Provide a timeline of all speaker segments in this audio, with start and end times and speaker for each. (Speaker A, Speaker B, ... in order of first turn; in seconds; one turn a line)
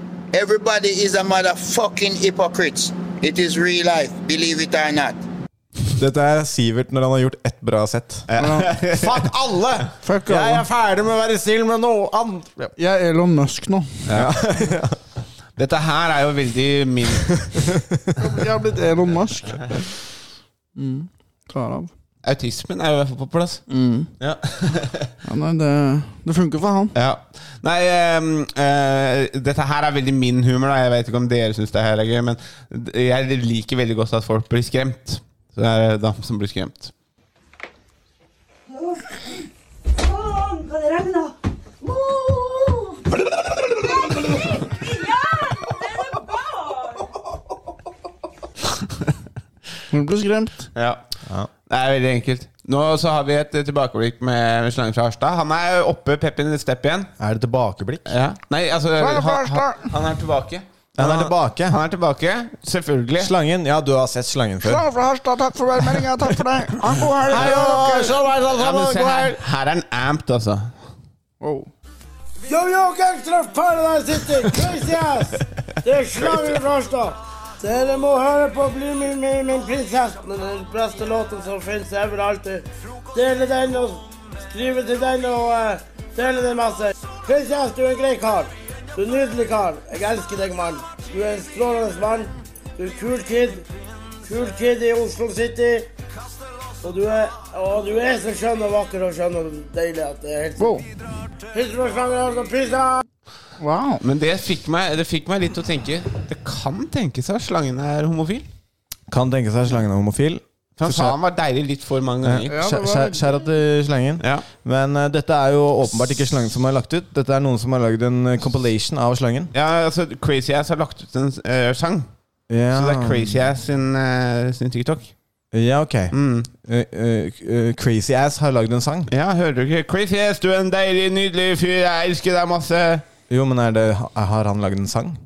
Speaker A: 0.3-5.2
Speaker B: 6.0-8.3
Speaker C: 8.3-9.3
Speaker D: 8.4-8.7
Speaker B: 8.9-12.8
Speaker D: 10.0-10.7
Speaker D: 12.8-14.0
Speaker C: 14.1-14.4
Speaker B: 14.1-15.0
Speaker C: 15.6-17.5
Speaker D: 18.2-19.8
Speaker D: 20.8-21.9
Speaker C: 22.2-23.6
Speaker D: 23.7-24.1
Speaker C: 24.2-25.1
Speaker D: 25.2-26.9
Speaker C: 26.9-36.9
Speaker D: 49.9-50.7
Speaker C: 50.8-51.0
Speaker C: 51.7-57.1
Speaker B: 57.2-58.1
Speaker C: 58.1-63.3
Speaker D: 59.0-59.9
Speaker B: 61.0-61.8
Speaker B: 63.2-64.8
Speaker D: 64.6-68.1
Speaker B: 67.2-69.4
Speaker C: 67.3-70.8
Speaker D: 71.4-71.7
Speaker E: 72.5-93.6
Speaker E: 94.2-95.9
Speaker E: 96.8-100.7
Speaker D: 100.6-100.9
Speaker E: 101.5-103.0
Speaker D: 103.6-104.0
Speaker C: 104.0-108.5
Speaker B: 109.1-111.2
Speaker C: 110.8-112.5
Speaker B: 112.2-119.5
Speaker D: 112.5-113.3
Speaker C: 114.2-114.5
Speaker C: 119.5-122.1
Speaker B: 122.5-123.4
Speaker C: 122.7-125.1
Speaker B: 125.5-129.1
Speaker C: 126.1-126.5
Speaker C: 129.1-133.1
Speaker B: 133.3-135.2